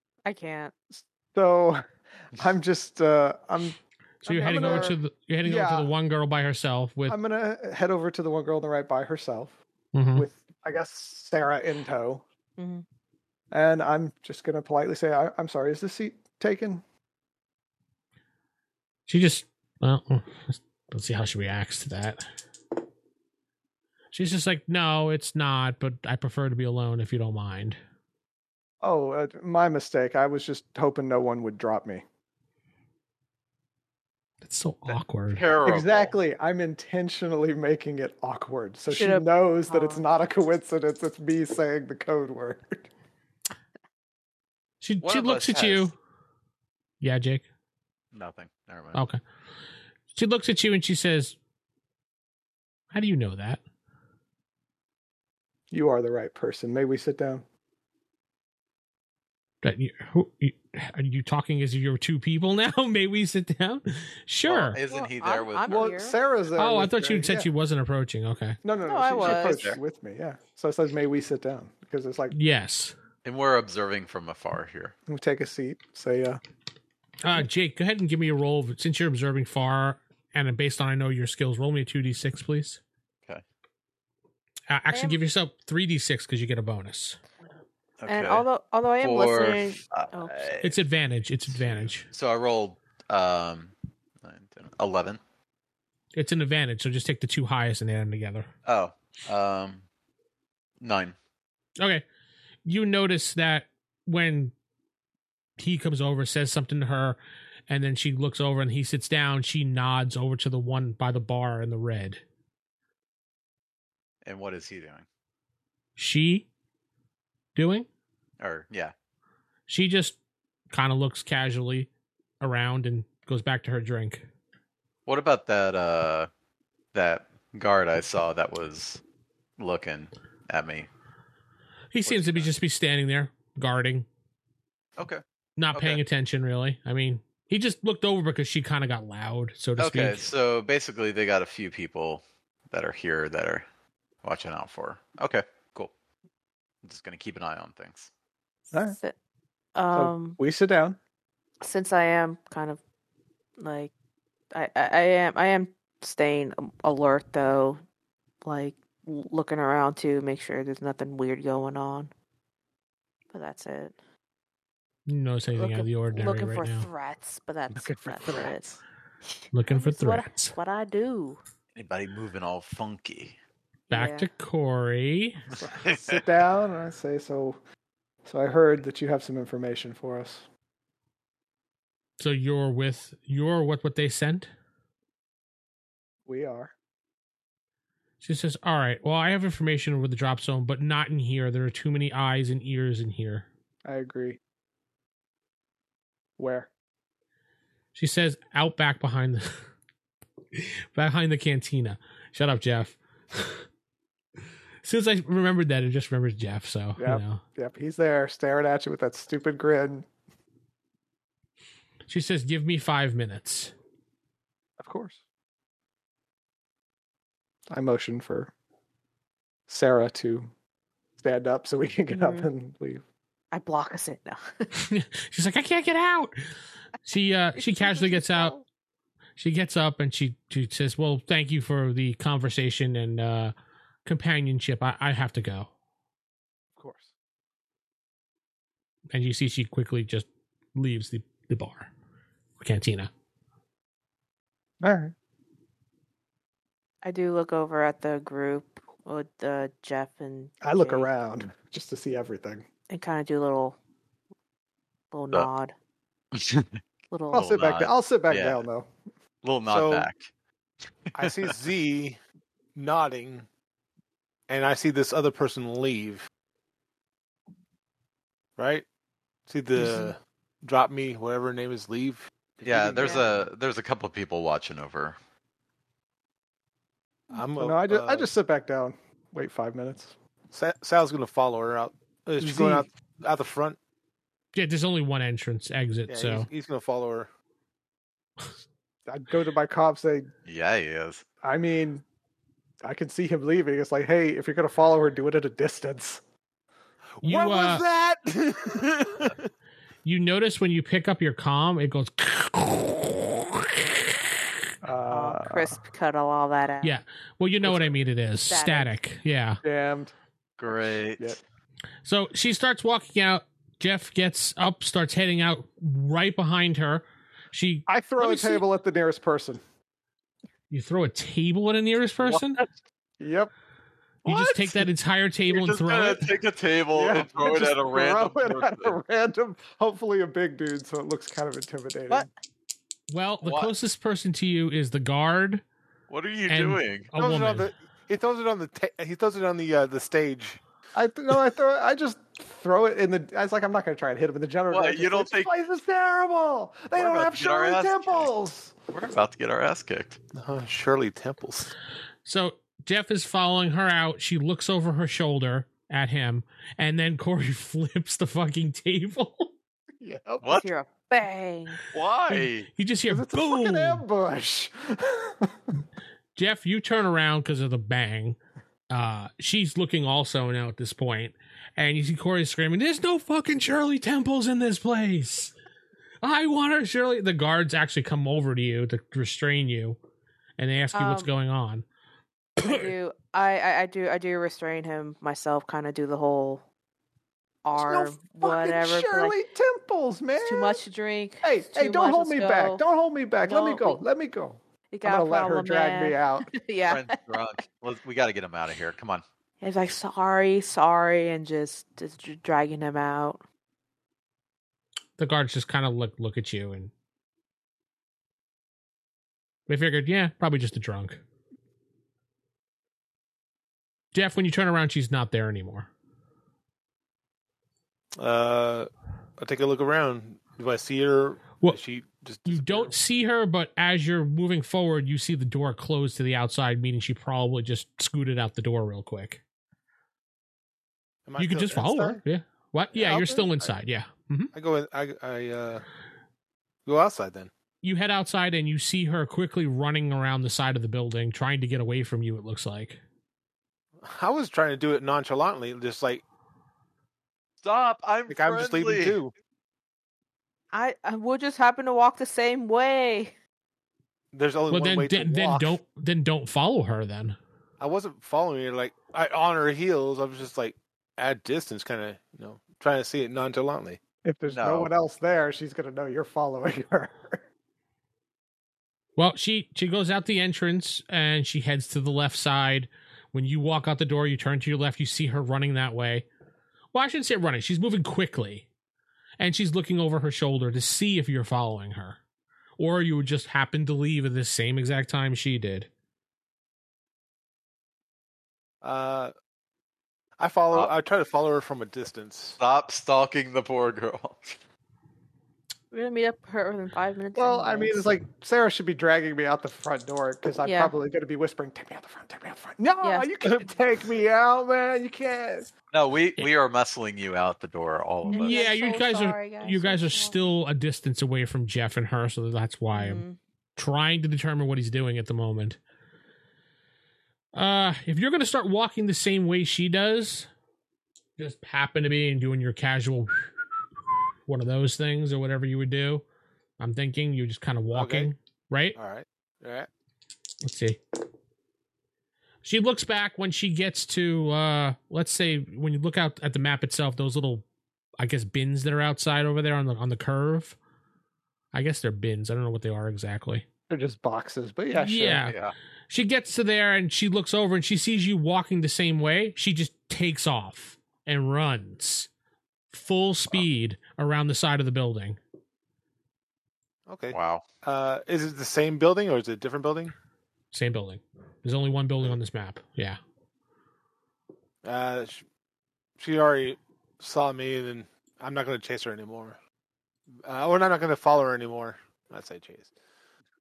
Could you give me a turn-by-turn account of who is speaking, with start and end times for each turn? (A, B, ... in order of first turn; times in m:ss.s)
0:00.2-0:00.7 A
0:00.9-0:05.9 B
0:04.2-0:07.2 C
0:04.6-0:04.9 A
0:07.1-0:09.6 B
0:09.9-0:10.2 C
0:10.1-0:12.2 B
0:12.6-0:12.8 A
0:13.5-0:16.8 B
0:19.1-0:22.2 C
0:24.1-0:27.8 C
0:28.8-0:32.0 B
0:34.4-0:35.4 C
0:35.3-0:36.1 D
0:35.6-0:42.9 B
0:38.9-0:40.0 A
0:44.8-0:45.9 C
0:45.0-0:45.9 D
0:47.0-0:47.4 C
0:48.1-0:49.0 D
0:48.9-0:49.2 C
0:50.1-0:51.4 C
0:52.9-0:53.6 C
0:55.7-0:57.4 B
0:59.6-1:04.8 C
1:04.5-1:05.9 D
1:04.8-1:06.2 A
1:05.7-1:07.5 B
1:06.6-1:08.6 C
1:08.6-1:12.3 B
1:08.8-1:09.7 A
1:09.2-1:09.8 D
1:12.3-1:12.9 C
1:13.2-1:14.9 D
1:15.1-1:16.4 B
1:17.2-1:22.8 C
1:24.7-1:27.2 C
1:24.9-1:25.2 A
1:28.0-1:28.5 D
1:28.1-1:30.5 A
1:29.0-1:30.8 D
1:30.6-1:32.1 C
1:31.5-1:35.2 D
1:36.1-1:38.5 C
1:38.6-1:39.8 D
1:40.8-1:41.2 D
1:41.8-1:42.0 C
1:42.6-1:44.5 C
1:45.6-1:47.2 C
1:47.7-1:52.2 C
1:54.2-1:55.0 D
1:56.0-1:56.5 C
1:57.5-1:57.9 C
1:58.4-1:58.9 D
1:59.7-2:00.2 C
2:00.7-2:01.9 C
2:02.4-2:04.2 C
2:05.1-2:06.3 D
2:06.9-2:09.0 D
2:09.6-2:10.9 D
2:11.9-2:14.1 C
2:12.0-2:12.5 D
2:15.6-2:20.3 C
2:15.7-2:16.0 D
2:19.8-2:23.6 D
2:24.2-2:25.9 D
2:26.8-2:28.1 D
2:28.8-2:29.1 A
2:29.7-2:30.4 A
2:29.9-2:31.0 B
2:31.6-2:32.8 A
2:33.6-2:33.9 A
2:34.5-2:37.8 A
2:38.4-2:42.1 A
2:43.3-2:44.0 A
2:45.1-2:46.9 C
2:45.5-2:48.8 A
2:47.8-2:48.5 B
2:49.5-2:50.5 C
2:49.6-2:51.4 A
2:51.7-2:53.3 D
2:53.9-2:54.3 A
2:53.9-2:55.4 C
2:55.5-2:57.6 B
2:55.8-2:56.2 D
2:58.2-3:00.4 B
3:02.2-3:04.5 C
3:06.2-3:06.7 B
3:08.2-3:13.5 C
3:13.8-3:14.4 B
3:16.4-3:16.7 B
3:17.9-3:19.6 C
3:20.5-3:23.6 C
3:24.8-3:27.4 C
3:27.0-3:30.1 B
3:32.1-3:33.7 C
3:34.8-3:35.2 B
3:37.7-3:38.5 B
3:39.7-3:40.5 B
3:41.2-3:43.0 B
3:42.1-3:42.5 A
3:43.5-3:44.7 A
3:44.7-3:46.5 C
3:47.0-3:48.5 C
3:47.6-3:48.6 A
3:49.4-3:53.5 C
3:54.0-3:55.7 C
3:56.8-3:57.1 B
3:59.1-4:01.9 C
4:02.6-4:03.1 C
4:04.8-4:05.1 B
4:07.0-4:11.1 A
4:10.6-4:12.7 B
4:12.9-4:13.8 A
4:15.1-4:15.7 A
4:16.3-4:16.8 D
4:17.1-4:17.5 A
4:17.3-4:18.9 B
4:17.3-4:18.6 D
4:19.4-4:20.2 D
4:19.7-4:20.1 E
4:21.1-4:21.6 D
4:21.2-4:22.2 E
4:22.7-4:23.5 E
4:24.5-4:26.3 E
4:28.6-4:28.8 E
4:29.5-4:33.4 E
4:29.8-4:30.1 B
4:32.6-4:35.2 D
4:33.0-4:33.2 A
4:37.3-4:38.3 E
4:37.6-4:40.1 B
4:40.5-4:43.8 E
4:42.4-4:42.9 B
4:44.5-4:46.5 C
4:46.1-4:47.3 E
4:49.1-4:50.3 B
4:50.4-4:51.2 D
4:51.4-4:52.0 B
4:52.8-4:56.2 B
4:57.2-4:59.4 E
4:57.2-4:57.8 C
5:00.0-5:04.2 C
5:04.8-5:05.8 B
5:05.1-5:06.9 A
5:06.8-5:09.6 C
5:08.5-5:08.9 A
5:09.6-5:10.1 B
5:10.6-5:11.4 D
5:10.7-5:11.4 B
5:12.0-5:18.6 C
5:17.9-5:19.6 B
5:20.7-5:22.6 C
5:23.2-5:23.5 B
5:24.2-5:24.8 B
5:24.2-5:26.3 C
5:25.5-5:29.0 D
5:26.9-5:32.3 B
5:33.1-5:35.6 C
5:33.4-5:33.7 D
5:36.1-5:37.1 D
5:36.5-5:37.7 C
5:37.2-5:40.6 E
5:40.9-5:48.7 B
5:44.7-5:45.5 D
5:46.9-5:48.3 D
5:48.9-5:50.2 D
5:50.3-5:51.7 E
5:52.2-5:59.5 C
6:00.0-6:00.6 B
6:00.4-6:00.7 D
6:00.5-6:01.9 A
6:01.9-6:02.7 D
6:02.3-6:04.0 C
6:03.1-6:05.8 B
6:06.3-6:08.4 C
6:08.9-6:15.5 C
6:16.2-6:20.0 C
6:20.6-6:21.8 C
6:20.9-6:21.3 A
6:22.6-6:22.9 C
6:22.6-6:26.6 A
6:27.6-6:29.4 A
6:27.7-6:30.8 B
6:30.4-6:32.8 A
6:31.4-6:36.5 B
6:33.4-6:34.0 A
6:34.9-6:37.2 A
6:36.9-6:39.2 D
6:39.6-6:43.4 A
6:45.2-6:46.9 C
6:49.7-6:51.2 C
6:54.1-6:55.9 C
6:58.2-7:02.9 E
7:02.4-7:09.4 C
7:11.2-7:12.2 E
7:11.4-7:14.5 C
7:12.9-7:13.7 E
7:14.5-7:15.8 E
7:16.8-7:17.5 E
7:17.8-7:23.0 C
7:24.0-7:26.2 E
7:27.6-7:29.2 D
7:28.3-7:29.3 E
7:30.7-7:33.3 A
7:34.3-7:35.8 E
7:34.7-7:37.4 C
7:37.8-7:44.0 E
7:44.2-7:47.4 B
7:44.5-7:44.9 D
7:49.2-7:56.2 C
7:56.9-7:58.7 C
7:59.4-8:02.2 C
8:02.8-8:05.9 C
8:08.8-8:09.3 E
8:10.4-8:12.6 E
8:12.6-8:14.6 D
8:15.9-8:18.0 A
8:17.3-8:25.7 B
8:20.6-8:20.9 A
8:23.0-8:23.3 A
8:25.9-8:28.6 D
8:28.3-8:30.5 A
8:28.4-8:33.2 C
8:32.9-8:33.4 A
8:33.8-8:35.8 C
8:37.5-8:40.5 C
8:41.4-8:43.5 C
8:44.5-8:46.2 C
8:46.8-8:49.0 C
8:47.9-8:48.3 E
8:48.9-8:49.9 E
8:50.6-8:51.0 C
8:52.6-8:57.6 C
8:58.2-9:00.8 C
9:01.7-9:03.6 C
9:03.9-9:05.4 B
9:04.9-9:05.6 C
9:05.4-9:05.7 D
9:06.1-9:12.3 C
9:12.9-9:15.4 C
9:17.1-9:20.1 E
9:17.3-9:17.6 D
9:20.7-9:23.2 C
9:24.8-9:25.4 E
9:26.2-9:29.6 E
9:30.4-9:32.9 E